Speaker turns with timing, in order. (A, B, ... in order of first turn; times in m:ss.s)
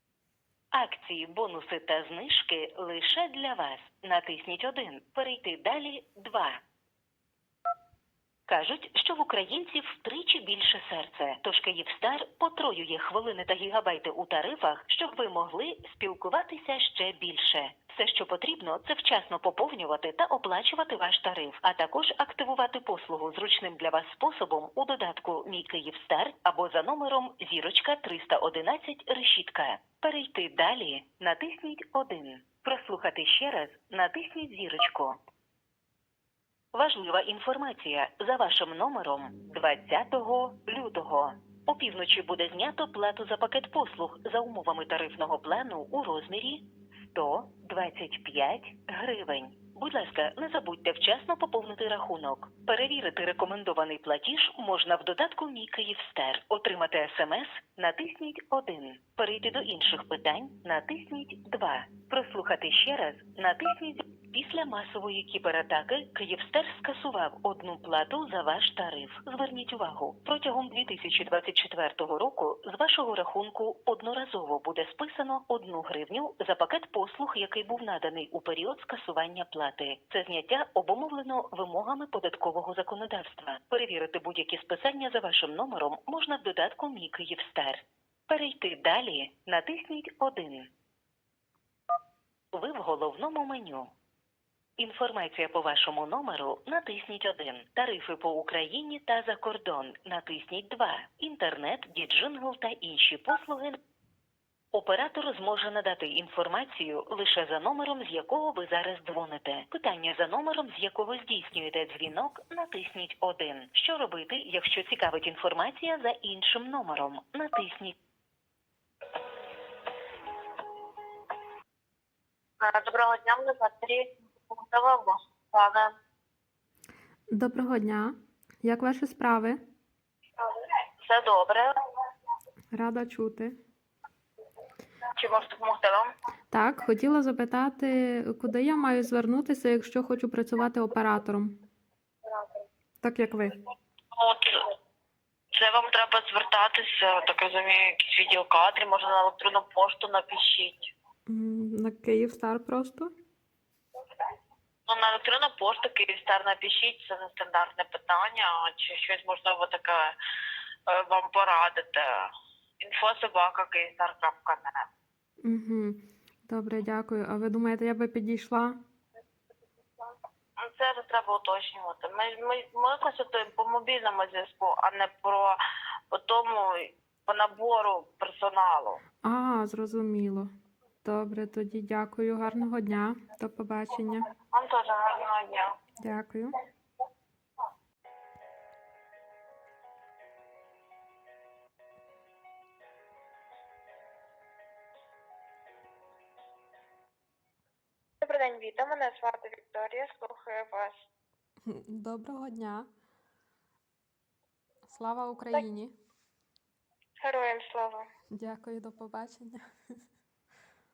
0:00.7-0:06.6 A
0:08.5-0:35.1 A
0:36.7-1:30.7 A
1:32.5-1:33.9 A
1:34.8-1:43.8 A
1:44.7-1:58.0 A
2:02.6-2:05.9 B
2:07.3-2:09.6 C
2:11.0-2:11.7 B
2:12.7-2:13.5 C
2:15.2-2:16.1 B
2:16.5-2:21.5 C
2:23.0-2:23.6 C
2:24.1-2:24.6 B
2:25.6-2:30.9 B
2:31.3-2:33.1 C
2:34.9-2:40.1 B
2:40.9-2:42.3 B
2:42.8-2:44.8 B
2:45.4-2:48.8 C
2:50.6-2:55.6 B
2:56.1-2:59.0 B
2:59.2-3:00.4 C
3:01.0-3:04.3 C
3:04.5-3:05.7 B
3:06.0-3:06.6 C
3:18.2-3:21.0 B
3:21.7-3:22.8 C
3:24.9-3:25.9 C
3:27.2-3:28.0 B
3:28.3-3:29.6 C